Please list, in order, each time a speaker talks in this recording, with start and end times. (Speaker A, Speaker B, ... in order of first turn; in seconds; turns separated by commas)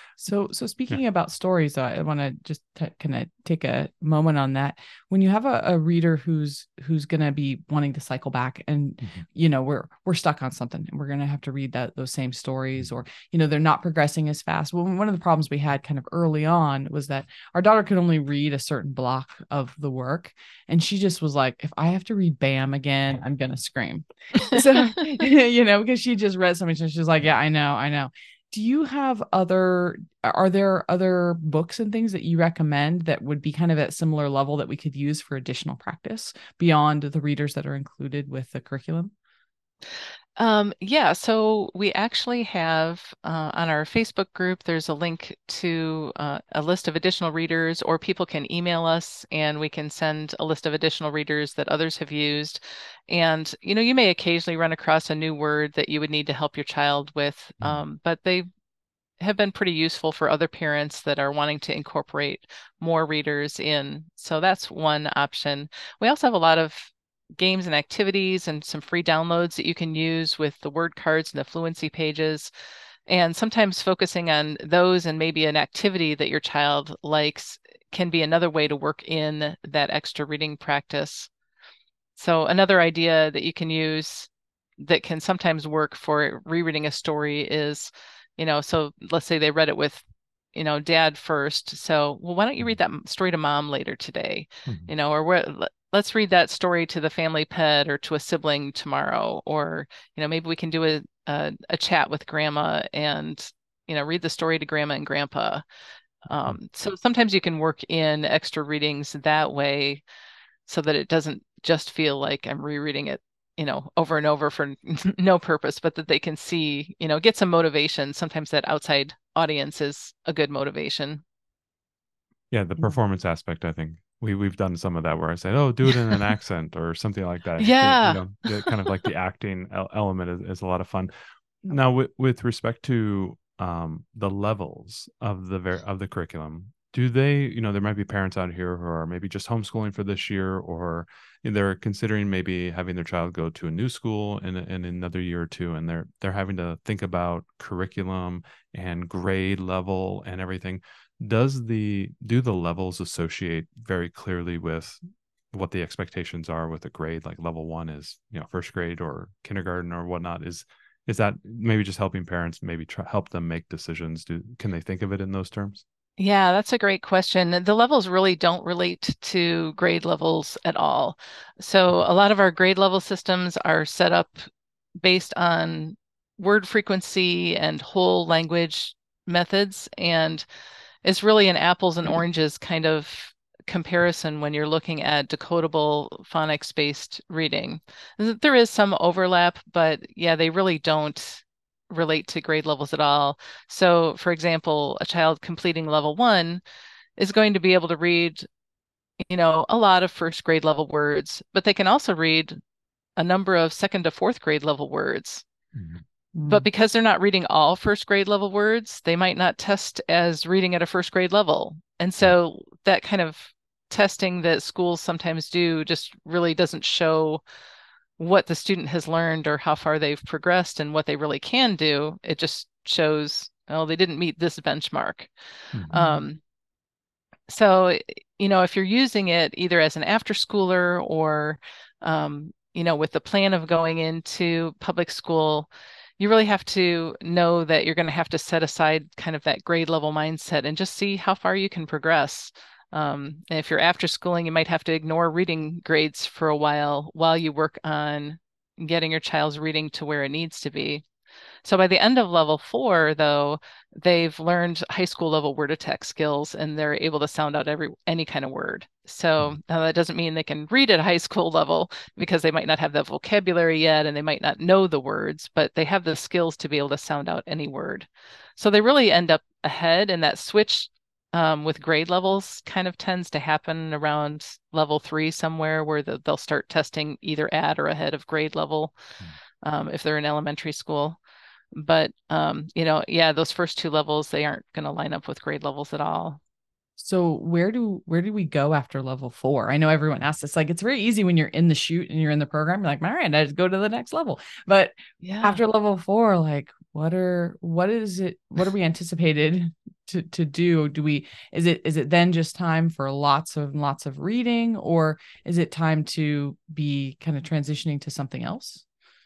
Speaker A: 0.2-39.1, Speaker B: 40.4-58.5, Speaker B: 59.2-72.5, Speaker B: 73.1-81.3, Speaker B: 82.2-84.3, Speaker B: 84.8-105.6, Speaker B: 106.3-110.0, Speaker B: 110.7-121.2, Speaker C: 122.5-131.1, Speaker B: 127.6-128.7, Speaker C: 131.6-155.0, Speaker C: 155.5-165.8, Speaker B: 166.2-174.4, Speaker B: 175.0-180.4, Speaker B: 181.0-196.6, Speaker B: 197.2-198.4, Speaker B: 199.3-202.6, Speaker B: 203.2-205.4, Speaker C: 205.7-206.0, Speaker A: 206.3-206.7, Speaker B: 206.4-217.4, Speaker B: 218.2-225.3, Speaker B: 225.9-226.4, Speaker A: 225.9-226.2, Speaker B: 227.5-251.0, Speaker B: 251.6-278.9, Speaker B: 279.6-281.2, Speaker B: 281.7-286.4, Speaker A: 287.0-308.8, Speaker B: 295.2-295.6